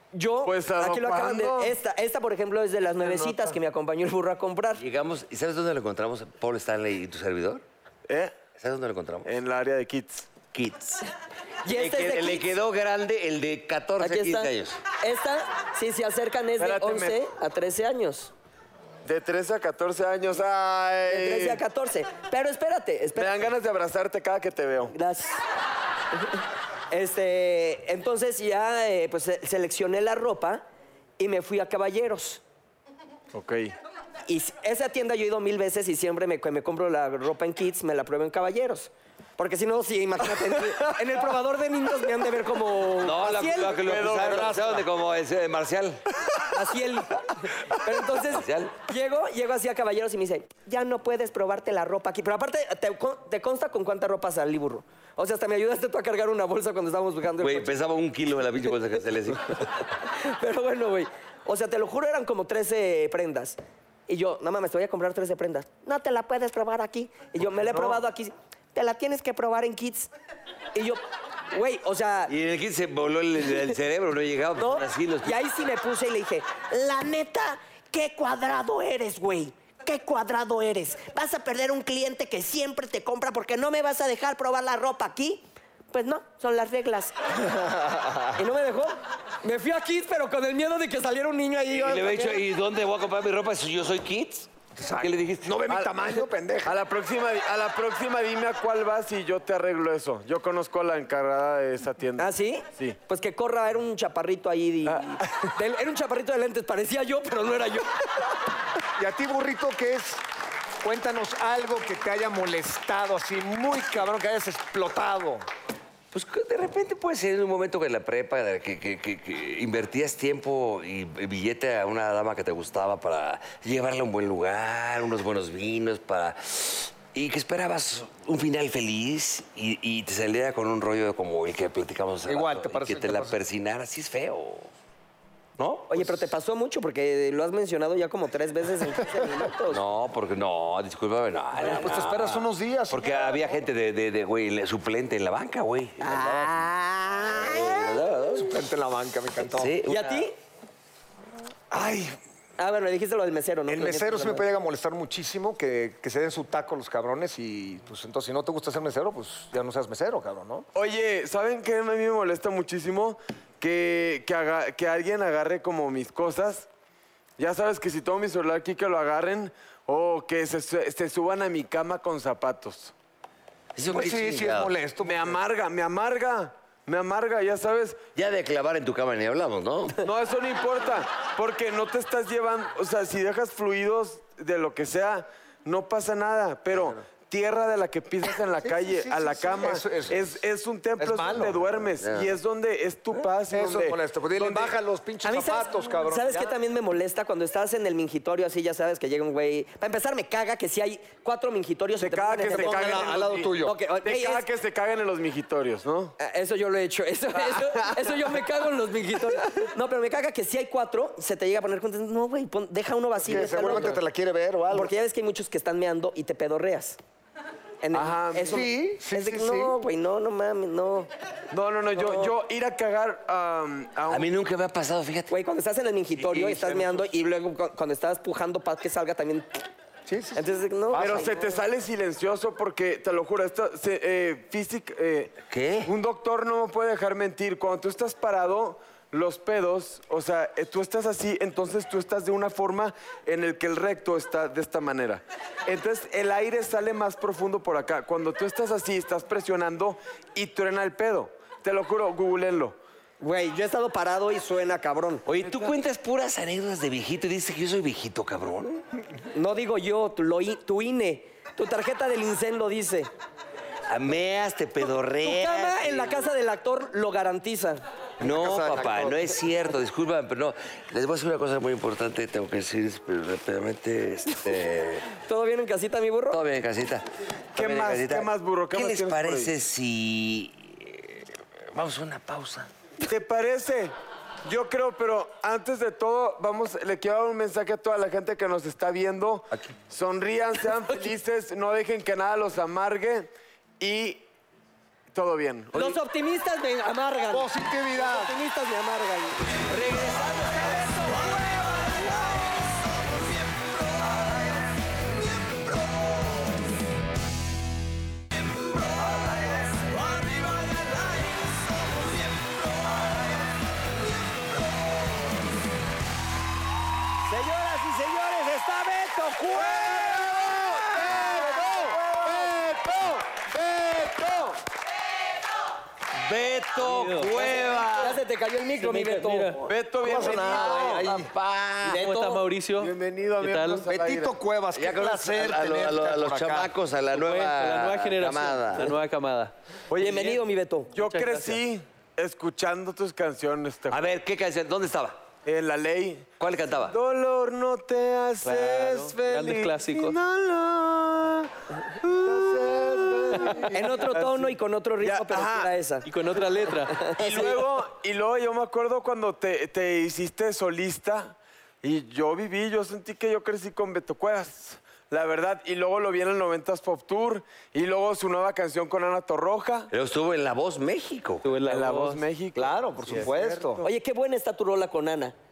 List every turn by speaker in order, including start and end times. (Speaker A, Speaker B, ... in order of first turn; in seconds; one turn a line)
Speaker A: 0.1-4.8
Speaker B: 0.4-1.8
Speaker B: 3.0-3.6
Speaker C: 4.8-7.6
Speaker B: 8.1-8.4
Speaker C: 8.6-9.3
Speaker B: 9.2-10.3
Speaker C: 10.5-11.1
Speaker A: 11.6-12.5
Speaker C: 11.7-14.8
Speaker A: 14.0-18.3
Speaker B: 16.6-17.2
Speaker B: 19.0-21.6
Speaker A: 21.1-23.4
Speaker B: 23.1-24.9
Speaker A: 24.9-25.4
Speaker A: 26.9-30.6
Speaker A: 31.2-32.4
Speaker B: 33.3-33.7
Speaker A: 34.3-43.9
Speaker C: 43.0-46.0
Speaker B: 43.8-44.8
Speaker A: 46.4-57.7
Speaker C: 48.2-48.8
Speaker C: 57.4-59.9
Speaker A: 60.0-70.1
Speaker B: 67.7-68.0
Speaker A: 70.7-72.3
Speaker C: 72.3-75.3
Speaker A: 74.5-87.1
Speaker D: 87.5-88.2
Speaker A: 88.3-92.4
Speaker C: 91.7-95.6
Speaker D: 94.8-96.8
Speaker B: 95.7-95.9
Speaker B: 96.6-103.0
Speaker A: 102.2-108.0
Speaker B: 104.9-105.5
Speaker D: 109.0-110.2
Speaker D: 110.8-115.4
Speaker C: 116.1-134.7
Speaker D: 132.2-133.4
Speaker C: 135.6-136.3
Speaker A: 135.9-139.8
Speaker C: 139.7-146.7
Speaker D: 141.5-143.4
Speaker A: 146.0-147.9
Speaker C: 147.3-148.5
Speaker D: 148.3-149.8
Speaker C: 149.4-150.3
Speaker A: 149.9-150.3
Speaker D: 151.7-152.1
Speaker A: 152.6-154.4
Speaker D: 153.7-160.7
Speaker B: 160.7-166.7
Speaker B: 167.4-172.9
Speaker C: 173.7-174.7
Speaker D: 173.8-175.4
Speaker B: 175.0-178.0
Speaker C: 178.1-180.0
Speaker B: 180.0-194.7
Speaker D: 188.6-190.4
Speaker D: 191.0-191.8
Speaker C: 192.0-192.4
Speaker D: 193.5-196.6
Speaker A: 195.2-204.4
Speaker B: 202.0-206.2
Speaker D: 202.5-203.8
Speaker A: 206.2-214.0
Speaker B: 207.3-208.4
Speaker D: 213.2-214.9
Speaker A: 214.7-217.0
Speaker A: 217.8-221.1
Speaker B: 217.9-218.7
Speaker D: 218.4-219.7
Speaker B: 221.5-224.3
Speaker A: 221.9-222.3
Speaker C: 224.1-225.3
Speaker A: 225.3-229.6
Speaker D: 230.1-231.3
Speaker A: 230.3-231.3
Speaker B: 230.9-252.8
Speaker C: 235.5-235.9
Speaker A: 253.2-255.2
Speaker C: 255.2-258.8
Speaker A: 259.3-263.1
Speaker C: 263.9-266.2
Speaker A: 265.2-267.8
Speaker D: 268.2-269.4
Speaker C: 268.2-275.1
Speaker A: 275.2-276.4
Speaker C: 276.3-282.7
Speaker B: 277.6-279.5
Speaker B: 283.0-283.9
Speaker B: 284.4-294.2
Speaker B: 295.1-296.0
Speaker A: 295.7-302.4
Speaker D: 297.3-298.3
Speaker A: 317.2-320.1
Speaker B: 319.6-324.5
Speaker D: 321.0-322.4
Speaker A: 321.1-322.4
Speaker C: 326.1-328.2
Speaker E: 326.8-327.6
Speaker A: 327.9-329.6
Speaker E: 328.8-329.6
Speaker B: 329.6-331.1
Speaker D: 330.0-331.3
Speaker C: 330.2-332.1
Speaker A: 331.8-332.4
Speaker E: 331.9-333.9
Speaker B: 332.8-334.3
Speaker D: 333.9-336.7
Speaker C: 334.7-338.9
Speaker E: 337.1-339.5
Speaker B: 339.9-340.4
Speaker A: 339.9-340.9
Speaker B: 340.9-344.1
Speaker E: 340.9-341.6
Speaker C: 343.9-345.2
Speaker B: 345.4-346.3
Speaker C: 346.4-346.9
Speaker B: 346.9-355.7
Speaker E: 348.4-350.1
Speaker D: 352.2-353.7
Speaker A: 353.7-356.1
Speaker E: 356.0-357.1
Speaker A: 356.9-357.6
Speaker B: 357.2-369.9
Speaker C: 369.9-371.5
Speaker E: 371.4-372.2
Speaker B: 371.6-373.9
Speaker D: 372.5-373.8
Speaker A: 373.8-375.3